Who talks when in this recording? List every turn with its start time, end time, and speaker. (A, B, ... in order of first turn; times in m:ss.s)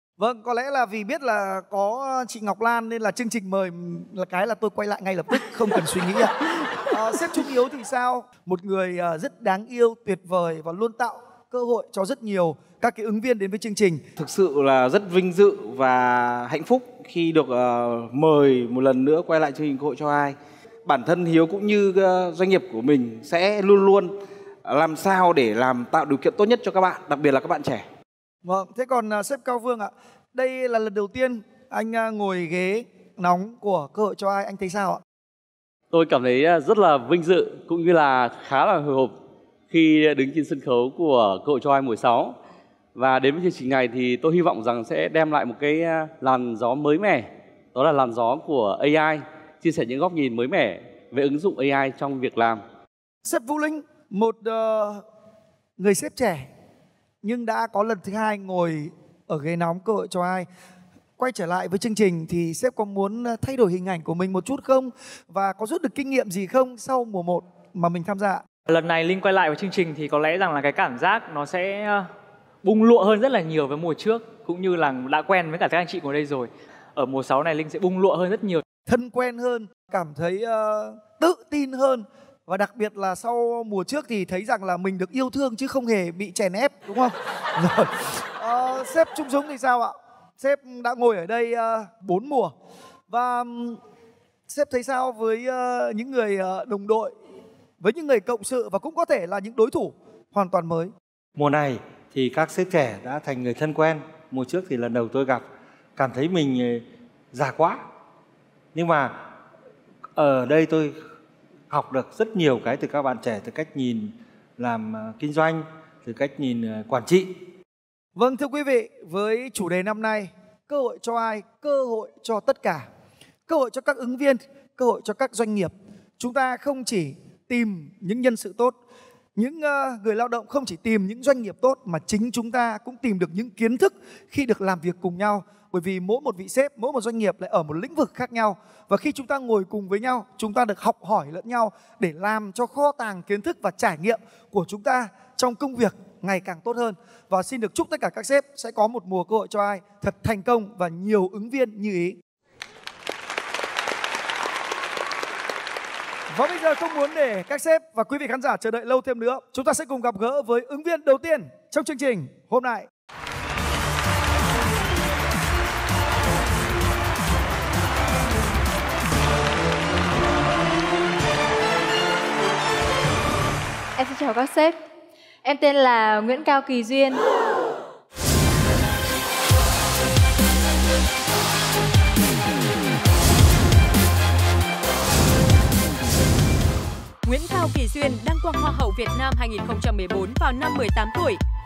0:00.2-0:14.0 A
0:14.2-0:24.1 B
0:24.6-0:27.9 B
0:28.4-0:35.0 A
0:35.9-0:39.2 C
0:39.7-0:42.4 C
0:43.0-0:52.6 C
0:53.2-0:55.0 A
0:55.8-0:56.5 A
0:57.2-1:00.5 A
1:01.2-1:08.4 A
1:08.7-1:12.1 D
1:12.6-1:18.6 D
1:18.9-1:32.5 A
1:33.1-1:33.8 A
1:34.5-1:37.1 A
1:37.8-1:40.9 A
1:41.4-1:45.4 E
1:46.0-1:47.8 E
1:48.7-1:49.2 E
1:50.2-1:51.0 E
1:51.7-1:57.4 E
1:58.2-2:02.9 A
2:03.5-2:08.8 A
2:09.4-2:32.2 A
2:36.3-2:42.9 A
2:54.0-2:54.8 F
2:55.4-2:57.2 F
3:07.2-3:11.4 G